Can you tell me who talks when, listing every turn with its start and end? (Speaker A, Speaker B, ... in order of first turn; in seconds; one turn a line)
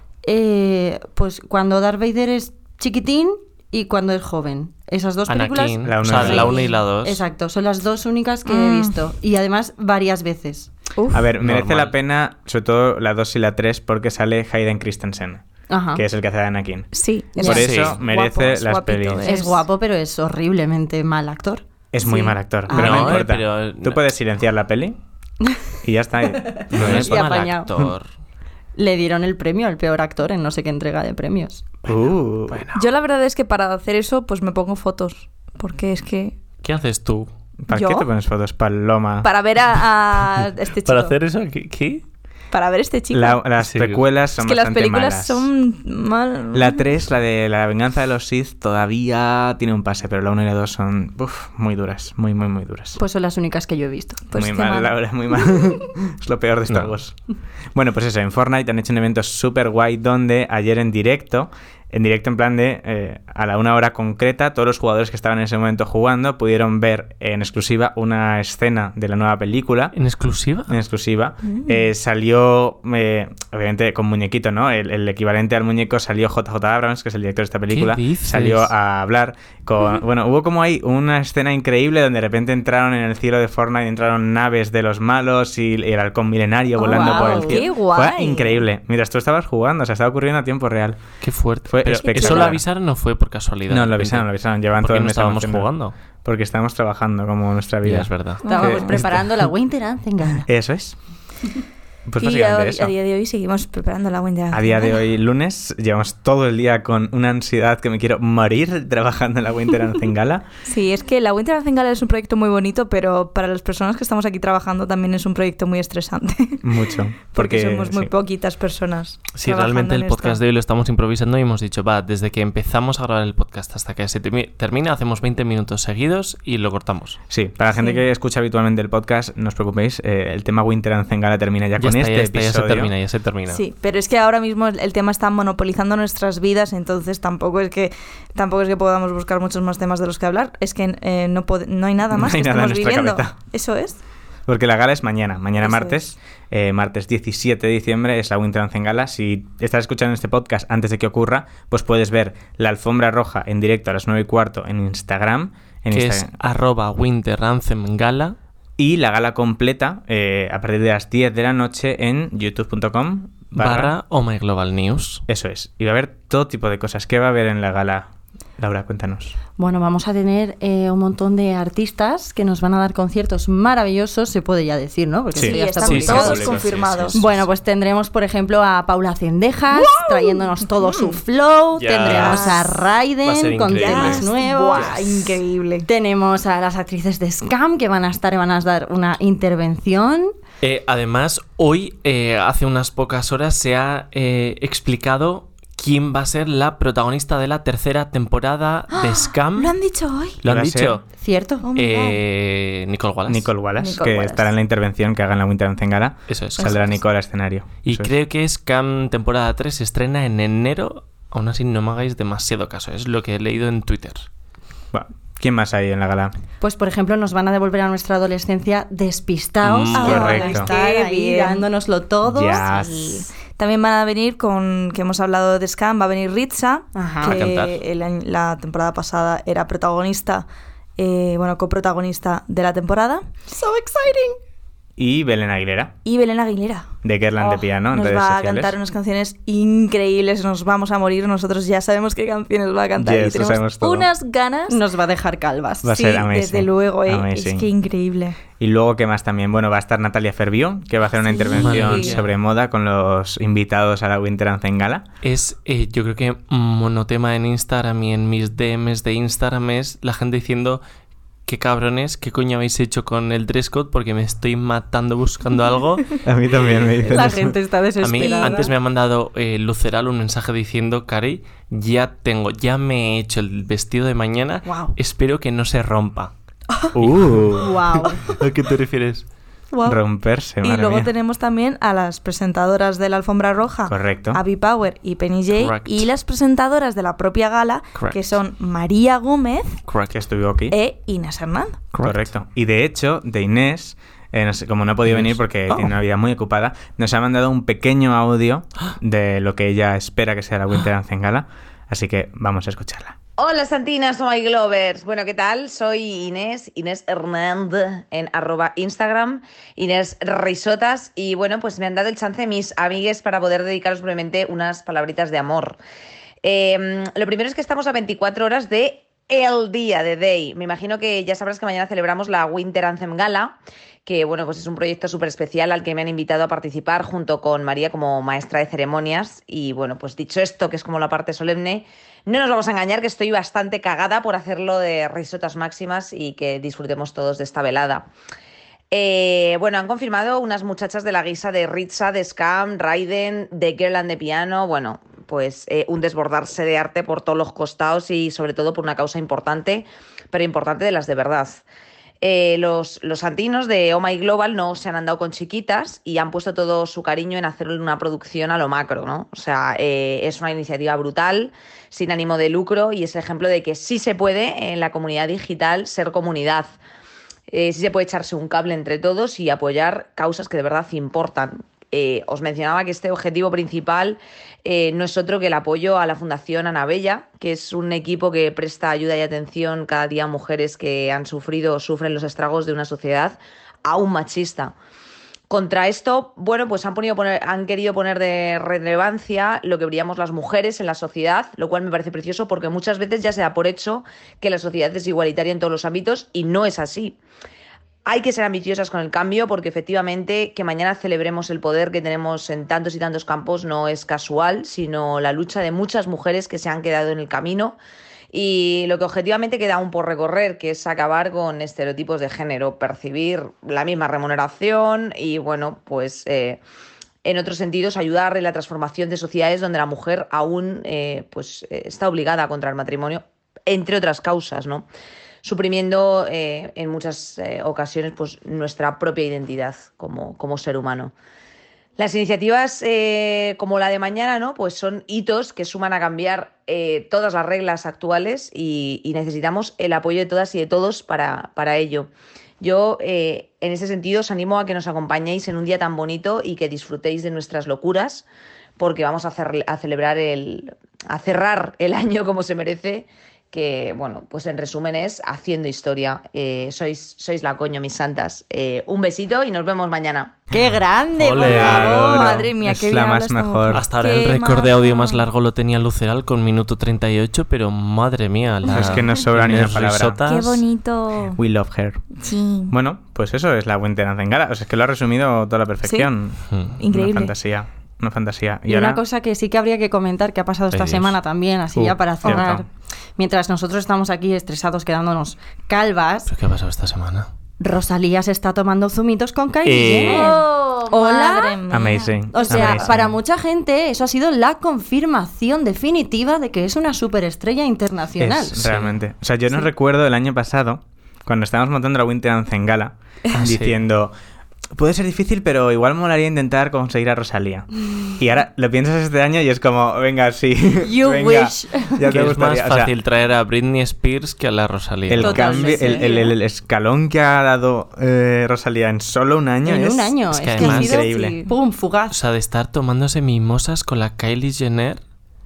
Speaker A: 0.2-10.7
Speaker B: 5.3-7.2
Speaker C: 5.8-6.6
Speaker D: 8.4-9.0
Speaker D: 11.0-11.3
Speaker C: 11.1-19.3
Speaker B: 11.4-11.9
Speaker A: 15.7-16.0
Speaker D: 16.9-19.6
Speaker A: 17.3-17.8
Speaker B: 17.4-18.0
Speaker A: 19.2-23.2
Speaker C: 21.9-25.0
Speaker B: 22.7-24.0
Speaker C: 25.8-27.9
Speaker A: 26.6-27.7
Speaker B: 26.7-28.1
Speaker A: 28.7-31.6
Speaker C: 31.9-32.6
Speaker B: 32.5-32.9
Speaker D: 32.7-36.3
Speaker B: 36.6-37.3
Speaker C: 37.6-39.3
Speaker D: 37.7-38.1
Speaker D: 39.2-41.1
Speaker B: 40.8-42.0
Speaker D: 42.5-43.4
Speaker C: 43.1-45.5
Speaker B: 43.6-44.1
Speaker D: 44.4-46.8
Speaker C: 46.5-53.0
Speaker A: 53.0-54.2
Speaker D: 54.3-55.0
Speaker C: 54.3-57.1
Speaker B: 56.7-57.0
Speaker C: 57.7-69.9
Speaker B: 69.9-70.8
Speaker C: 70.7-91.0
Speaker D: 71.5-71.8
Speaker B: 77.7-78.7
Speaker A: 86.8-87.6
Speaker D: 86.8-88.7
Speaker B: 91.2-95.9
Speaker C: 91.7-92.6
Speaker D: 92.0-92.6
Speaker C: 93.7-95.7
Speaker C: 96.2-99.5
Speaker B: 97.8-98.4
Speaker D: 98.4-99.0
Speaker A: 98.5-100.5
Speaker C: 100.5-101.0
Speaker C: 102.0-102.9
Speaker D: 102.2-105.0
Speaker C: 104.5-110.4
Speaker D: 110.7-116.7
Speaker C: 116.6-118.1
Speaker D: 117.3-120.4
Speaker B: 119.3-127.2
Speaker C: 127.3-132.9
Speaker D: 127.7-128.0
Speaker B: 131.8-133.6
Speaker D: 133.5-144.0
Speaker C: 142.1-143.3
Speaker C: 144.5-156.3
Speaker D: 145.6-146.0
Speaker B: 155.9-158.3
Speaker C: 158.8-163.9
Speaker B: 163.6-165.2
Speaker C: 165.3-169.3
Speaker A: 169.6-176.4
Speaker C: 175.3-177.2
Speaker D: 175.3-177.2
Speaker B: 175.8-176.6
Speaker A: 177.1-190.3
Speaker D: 179.7-180.4
Speaker B: 181.8-182.5
Speaker D: 182.1-182.8
Speaker B: 183.2-185.0
Speaker D: 183.7-185.8
Speaker B: 190.6-199.7
Speaker D: 198.9-200.4
Speaker B: 200.4-201.1
Speaker C: 200.4-201.0
Speaker A: 201.2-201.7
Speaker D: 201.6-202.2
Speaker B: 201.7-203.5
Speaker C: 203.3-208.1
Speaker D: 203.8-204.5
Speaker B: 206.3-206.8
Speaker B: 207.8-214.3
Speaker C: 214.9-216.3
Speaker A: 216.6-222.7
Speaker B: 219.6-220.3
Speaker D: 219.9-221.7
Speaker C: 220.0-220.7
Speaker C: 222.2-223.1
Speaker D: 222.6-230.4
Speaker A: 226.9-227.4
Speaker B: 227.2-227.8
Speaker D: 231.0-233.2
Speaker A: 233.5-234.3
Speaker C: 235.0-235.9
Speaker D: 236.0-236.9
Speaker C: 237.0-238.8
Speaker D: 237.4-244.8
Speaker C: 243.0-244.1
Speaker A: 244.7-245.9
Speaker C: 245.8-247.7
Speaker D: 245.8-248.4
Speaker C: 248.6-255.0
Speaker D: 251.1-252.2
Speaker B: 251.5-252.3
Speaker B: 255.2-260.8
Speaker B: 261.4-267.0
Speaker C: 266.2-267.5
Speaker A: 267.0-268.7
Speaker B: 268.0-276.3
Speaker A: 274.6-274.9
Speaker C: 276.9-277.8
Speaker B: 277.0-277.4
Speaker A: 277.5-278.2
Speaker B: 278.2-279.2
Speaker D: 279.7-280.0
Speaker C: 279.8-281.1
Speaker D: 280.6-289.8
Speaker C: 283.9-284.4
Speaker B: 285.5-286.1
Speaker B: 287.9-288.2
Speaker B: 289.9-290.2
Speaker C: 290.1-290.8
Speaker D: 290.7-291.8
Speaker B: 291.9-292.3
Speaker C: 292.0-303.1
Speaker B: 295.1-295.9
Speaker E: 303.4-315.8
Speaker E: 316.4-323.5
Speaker E: 324.1-338.1
Speaker E: 338.9-351.6
Speaker E: 352.2-366.7
Speaker E: 367.5-384.7
Speaker E: 385.5-397.1
Speaker E: 398.1-407.8
Speaker E: 408.3-416.6
Speaker E: 417.2-424.9
Speaker E: 425.4-431.1
Speaker E: 432.0-442.1
Speaker E: 442.6-448.2
Speaker E: 448.8-460.4
Speaker A: 460.5-462.0
Speaker B: 461.2-462.4
Speaker C: 461.4-463.8
Speaker D: 461.4-465.2
Speaker B: 463.7-470.6
Speaker C: 468.6-470.2
Speaker D: 468.7-469.0
Speaker D: 470.2-471.4
Speaker C: 471.3-472.0
Speaker D: 472.2-472.7
Speaker C: 472.7-479.0
Speaker D: 475.8-476.1
Speaker B: 476.5-476.8
Speaker D: 476.8-477.3
Speaker A: 478.7-482.6
Speaker B: 480.7-481.1
Speaker C: 481.7-482.6
Speaker D: 482.2-482.5
Speaker A: 483.2-486.3
Speaker B: 486.3-487.3
Speaker A: 487.6-491.6
Speaker B: 489.6-490.4
Speaker D: 489.9-492.8
Speaker C: 491.7-493.0
Speaker A: 492.3-498.6
Speaker C: 498.2-504.1
Speaker B: 498.6-499.0
Speaker B: 503.3-503.8
Speaker C: 504.7-512.9
Speaker A: 510.8-512.1
Speaker B: 512.1-515.8
Speaker C: 515.1-521.4
Speaker A: 515.1-516.3
Speaker D: 515.8-516.1
Speaker A: 519.6-522.2
Speaker B: 520.3-521.0
Speaker B: 522.1-525.0